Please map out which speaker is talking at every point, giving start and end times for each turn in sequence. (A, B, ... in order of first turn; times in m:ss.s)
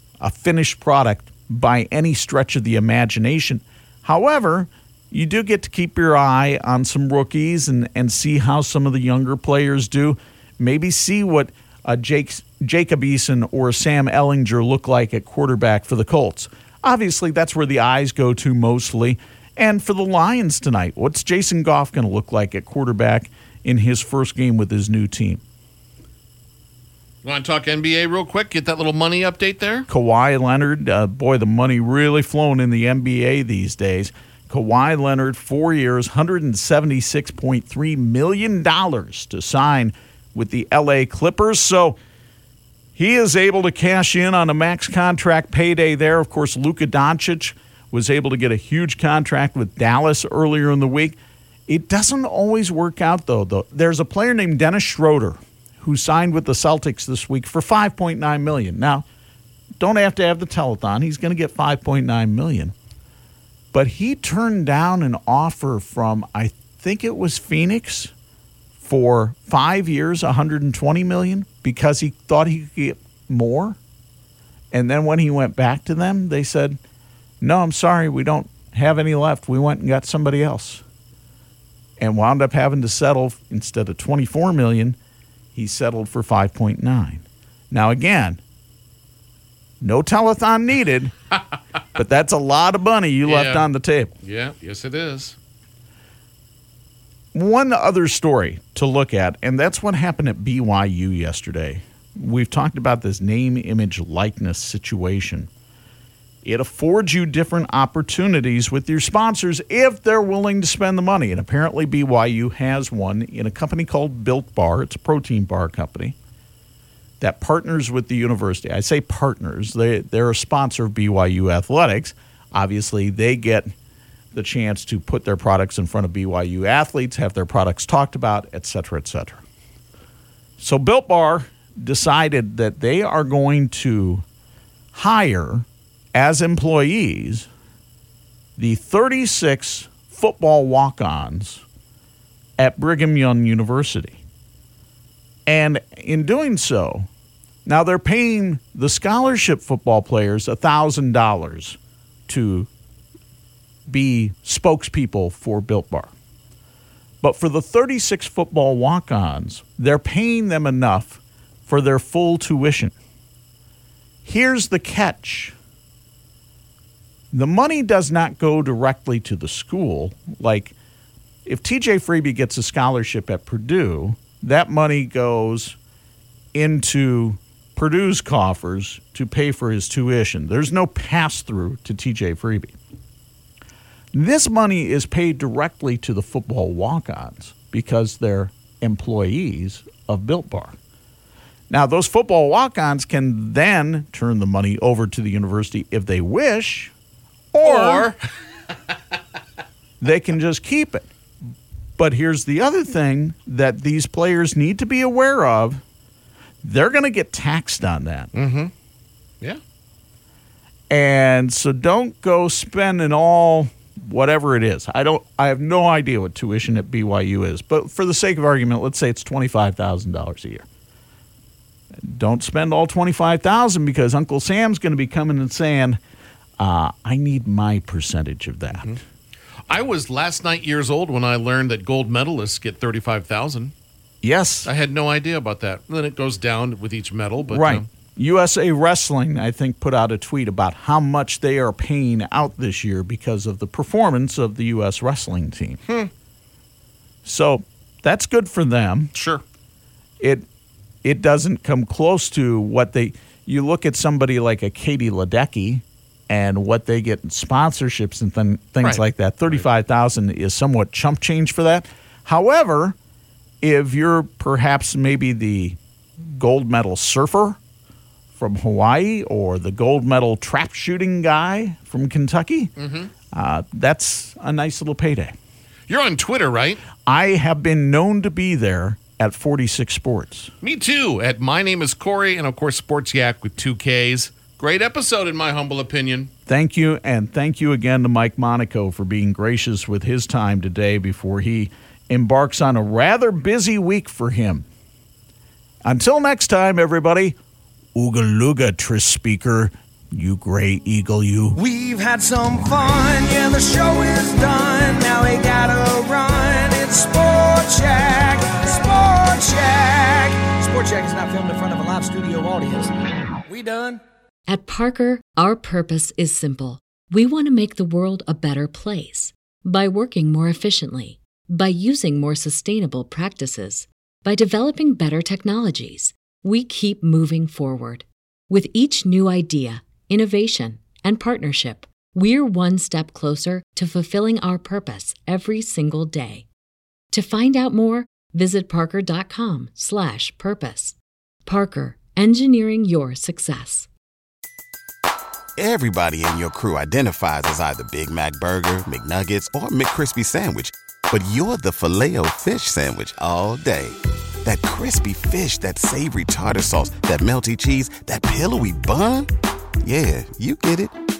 0:00.2-0:25.4 A
0:27.2-0:29.9 B
0:29.9-0:42.0 A
0:42.9-0:59.0 A
0:59.8-1:02.7 A
1:03.7-1:08.1 A
1:08.8-1:13.8 A
1:14.7-1:16.8 A
1:17.4-1:20.8 A
1:22.0-1:25.0 A
1:25.5-1:28.4 A
1:29.8-1:31.1 A
1:31.9-1:34.2 A
1:33.2-1:33.7 B
1:34.2-1:35.4 B
1:37.3-1:45.5 A
1:46.4-1:56.2 A
1:57.2-2:03.7 A
2:04.3-2:09.4 A
2:10.6-2:14.2 A
2:14.9-2:17.5 A
2:18.6-2:21.6 A
2:22.6-2:24.2 A
2:25.4-2:27.1 A
2:27.6-2:32.7 A
2:33.9-2:36.1 A
2:37.2-2:42.9 A
2:44.2-2:45.5 A
2:47.3-2:50.7 A
2:51.4-2:55.8 A
2:56.5-3:02.7 A
3:04.1-3:10.8 A
3:11.7-3:16.9 A
3:17.5-3:18.1 A
3:17.6-3:18.3 B
3:20.0-3:21.1 A
3:22.0-3:25.8 A
3:26.6-3:28.3 A
3:28.3-3:28.7 B
3:30.9-3:40.7 A
3:42.0-3:46.0 A
3:46.6-3:49.0 A
3:49.7-3:53.7 B
3:54.2-3:54.7 A
3:54.6-3:57.9 B
3:57.4-4:05.8 A
4:07.2-4:09.1 A
4:09.1-4:09.4 B
4:10.2-4:10.4 A
4:11.0-4:23.0 A
4:18.8-4:19.6 B
4:23.6-4:27.6 A
4:28.3-4:32.7 A
4:32.8-4:33.1 B
4:33.3-4:35.3 A
4:35.9-4:36.8 B
4:37.0-4:40.5 A
4:40.6-4:46.3 B
4:46.4-4:54.6 A
4:55.8-4:57.4 A
4:57.9-5:01.6 A
5:01.5-5:12.9 C
5:13.5-5:14.0 C
5:14.5-5:36.5 D
5:37.1-5:43.9 D
5:45.6-5:59.3 E
5:59.8-6:00.9 E